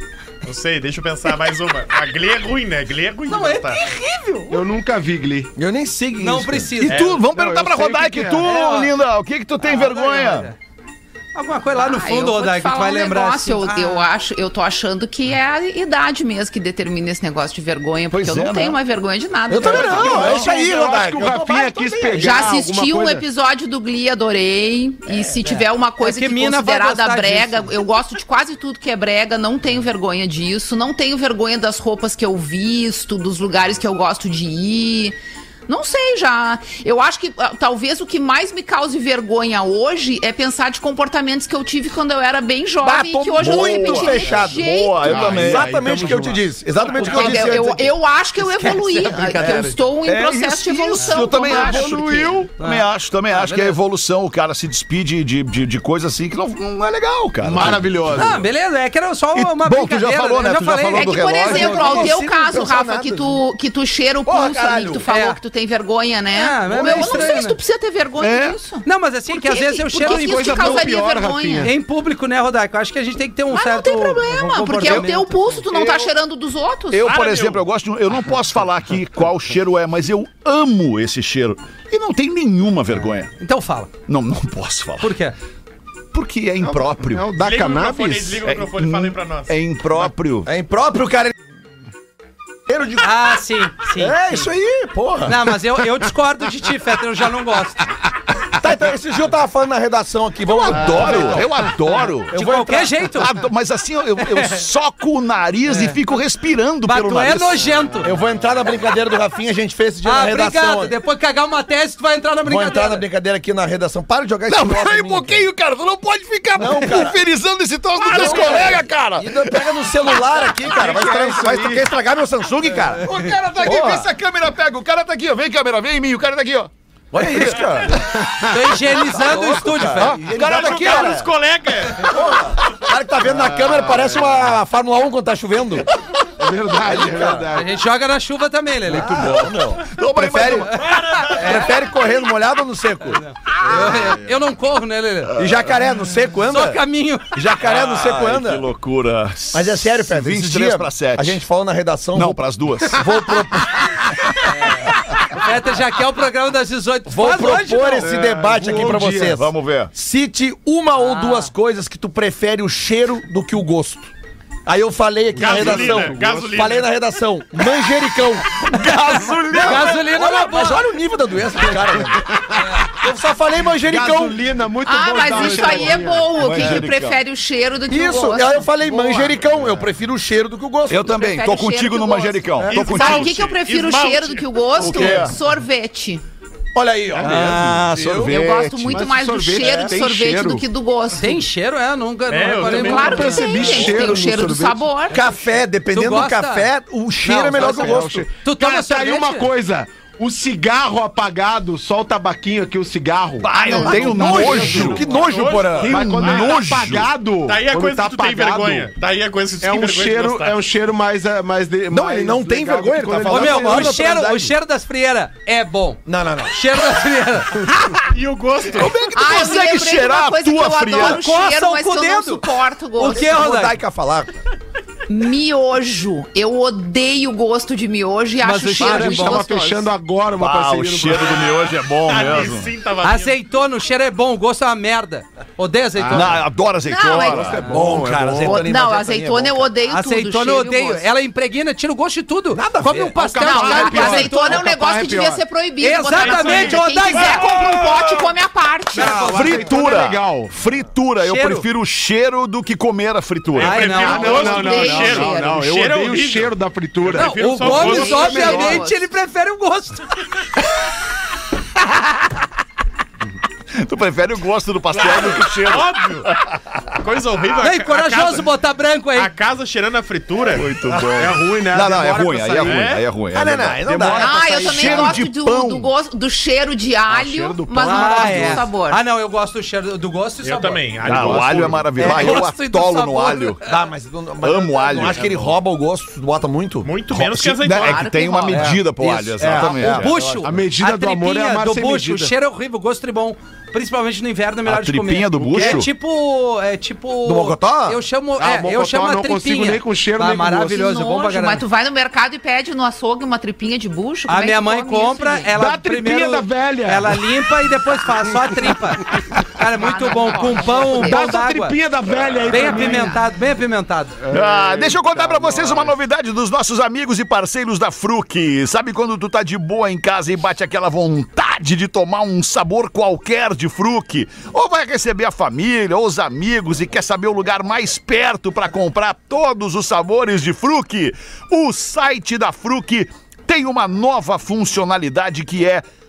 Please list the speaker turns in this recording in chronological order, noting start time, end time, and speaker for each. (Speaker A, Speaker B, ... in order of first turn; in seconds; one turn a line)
Speaker A: 0.4-3.8
Speaker B: 3.3-4.6
Speaker C: 4.5-5.5
Speaker D: 5.6-6.8
Speaker B: 6.2-7.0
Speaker E: 6.8-10.5
Speaker A: 6.9-7.2
Speaker C: 7.3-8.5
Speaker B: 8.4-8.9
Speaker B: 9.6-10.6
Speaker B: 11.3-14.1
Speaker F: 11.8-20.5
Speaker E: 18.1-18.8
Speaker D: 19.5-22.5
Speaker E: 19.5-20.5
Speaker C: 19.9-23.2
Speaker F: 22.2-45.2
Speaker B: 25.4-27.7
Speaker D: 42.8-47.9
Speaker E: 43.4-46.2
Speaker C: 45.0-47.6
Speaker F: 47.0-52.1
Speaker B: 48.4-49.8
Speaker E: 50.0-58.2
Speaker C: 51.3-52.5
Speaker B: 52.6-53.8
Speaker C: 57.4-58.5
Speaker B: 58.1-62.0
Speaker E: 59.4-62.1
Speaker F: 60.9-71.7
Speaker D: 61.4-63.4
Speaker D: 64.2-65.1
Speaker B: 65.1-65.4
Speaker B: 66.3-67.6
Speaker E: 66.8-67.2
Speaker E: 68.2-68.6
Speaker B: 68.8-70.9
Speaker C: 70.0-71.7
Speaker B: 71.6-75.6
Speaker F: 73.5-77.1
Speaker E: 74.8-75.1
Speaker E: 75.7-76.1
Speaker E: 76.9-83.3
Speaker A: 77.0-77.7
Speaker B: 83.4-83.9
Speaker E: 84.1-85.2
Speaker B: 85.0-85.3
Speaker E: 86.1-87.3
Speaker C: 86.6-88.5
Speaker A: 87.4-89.5
Speaker E: 88.5-90.5
Speaker D: 90.5-91.3
Speaker D: 92.7-93.1
Speaker B: 93.0-94.5
Speaker D: 93.9-95.6
Speaker B: 95.3-97.9
Speaker D: 98.6-103.1
Speaker E: 100.5-102.4
Speaker C: 100.9-101.2
Speaker B: 102.3-103.3
Speaker E: 103.1-107.7
Speaker B: 104.3-104.6
Speaker B: 105.7-106.0
Speaker B: 106.8-108.1
Speaker D: 108.0-110.9
Speaker B: 110.0-113.0
Speaker D: 112.4-115.5
Speaker E: 114.5-121.6
Speaker D: 116.5-117.2
Speaker D: 118.0-123.1
Speaker C: 120.7-121.7
Speaker E: 122.9-127.6
Speaker D: 123.6-124.1
Speaker D: 127.1-128.0
Speaker B: 128.5-130.2
Speaker D: 128.8-131.3
Speaker E: 129.9-131.2
Speaker A: 130.5-132.2
Speaker D: 132.0-135.9
Speaker C: 133.6-134.0
Speaker C: 136.4-137.7
Speaker D: 136.9-137.5
Speaker B: 137.5-139.4
Speaker D: 138.9-143.2
Speaker E: 138.9-140.8
Speaker B: 140.7-141.7
Speaker A: 140.9-141.5
Speaker B: 143.5-145.4
Speaker C: 143.9-144.2
Speaker D: 145.4-148.7
Speaker B: 146.5-147.3
Speaker E: 147.6-151.4
Speaker D: 149.5-154.1
Speaker E: 152.2-153.3
Speaker B: 154.5-158.1
Speaker D: 157.1-164.1
Speaker C: 158.0-159.4
Speaker E: 158.8-159.9
Speaker B: 161.0-161.5
Speaker D: 164.7-168.7
Speaker A: 165.4-166.9
Speaker C: 165.4-166.5
Speaker E: 168.6-170.1
Speaker D: 169.5-172.4
Speaker B: 169.5-170.8
Speaker D: 172.9-174.4
Speaker C: 173.8-176.4
Speaker F: 174.8-178.7
Speaker D: 175.3-175.9
Speaker E: 176.4-177.2
Speaker D: 177.9-181.1
Speaker E: 180.9-183.4
Speaker F: 181.1-186.2
Speaker D: 182.6-182.8
Speaker A: 182.7-185.3
Speaker E: 184.8-185.3
Speaker D: 186.8-188.4
Speaker E: 187.2-189.2
Speaker F: 188.2-191.5
Speaker C: 188.9-190.6
Speaker D: 189.6-189.9
Speaker B: 191.2-193.6
Speaker A: 192.3-193.6
Speaker F: 192.6-195.2
Speaker C: 192.8-194.9
Speaker D: 195.1-198.3
Speaker B: 195.9-196.7
Speaker B: 197.2-199.5
Speaker C: 197.5-205.2
Speaker E: 203.4-207.2
Speaker F: 203.6-204.0
Speaker D: 203.7-206.1
Speaker A: 204.7-206.7
Speaker C: 205.8-208.9
Speaker A: 207.5-210.6
Speaker C: 209.6-214.1
Speaker D: 211.9-214.5
Speaker B: 213.3-217.7
Speaker D: 216.1-216.6
Speaker A: 218.1-219.1
Speaker E: 218.7-221.3
Speaker F: 219.1-223.4
Speaker B: 220.9-223.8
Speaker D: 223.0-224.4
Speaker F: 225.1-229.9
Speaker B: 228.4-229.4
Speaker C: 228.7-231.7
Speaker E: 230.3-232.7
Speaker A: 232.0-233.4
Speaker B: 233.0-236.4
Speaker C: 236.0-236.4
Speaker E: 236.1-237.6
Speaker F: 236.8-237.6
Speaker C: 237.1-238.7
Speaker D: 237.6-239.7
Speaker F: 238.4-241.1
Speaker B: 239.9-244.6
Speaker D: 242.5-243.2
Speaker C: 242.8-245.4
Speaker F: 243.4-249.5
Speaker B: 245.8-247.5
Speaker A: 246.1-247.8
Speaker E: 247.6-248.0
Speaker B: 248.9-249.7
Speaker C: 248.9-250.5
Speaker E: 249.2-253.9
Speaker B: 251.2-251.7
Speaker A: 253.6-258.5
Speaker B: 253.6-254.9
Speaker C: 253.9-258.9
Speaker F: 254.1-255.6
Speaker B: 257.1-260.1
Speaker F: 257.6-259.0
Speaker E: 263.7-267.0
Speaker A: 264.9-266.3
Speaker A: 267.0-268.5
Speaker B: 267.6-269.3
Speaker A: 269.1-270.7
Speaker E: 270.5-275.9
Speaker C: 271.0-272.9
Speaker A: 272.6-273.0
Speaker D: 273.3-275.2
Speaker C: 273.9-274.2
Speaker F: 274.1-279.0
Speaker C: 277.1-278.7
Speaker B: 277.8-283.6
Speaker A: 280.4-282.1
Speaker E: 281.0-283.6
Speaker C: 281.3-281.8
Speaker D: 283.6-286.9
Speaker E: 284.4-285.5
Speaker A: 286.8-288.1
Speaker E: 287.1-290.2
Speaker F: 287.7-288.8
Speaker D: 288.5-290.6
Speaker B: 289.6-301.6
Speaker C: 290.4-292.3
Speaker E: 294.7-295.9
Speaker D: 297.2-298.0
Speaker C: 298.4-300.9
Speaker F: 300.7-305.5
Speaker B: 304.3-311.8
Speaker C: 305.5-307.3
Speaker F: 309.7-311.3
Speaker C: 310.8-313.2
Speaker B: 312.5-314.2
Speaker F: 312.5-312.9
Speaker C: 314.2-316.0
Speaker E: 314.3-335.8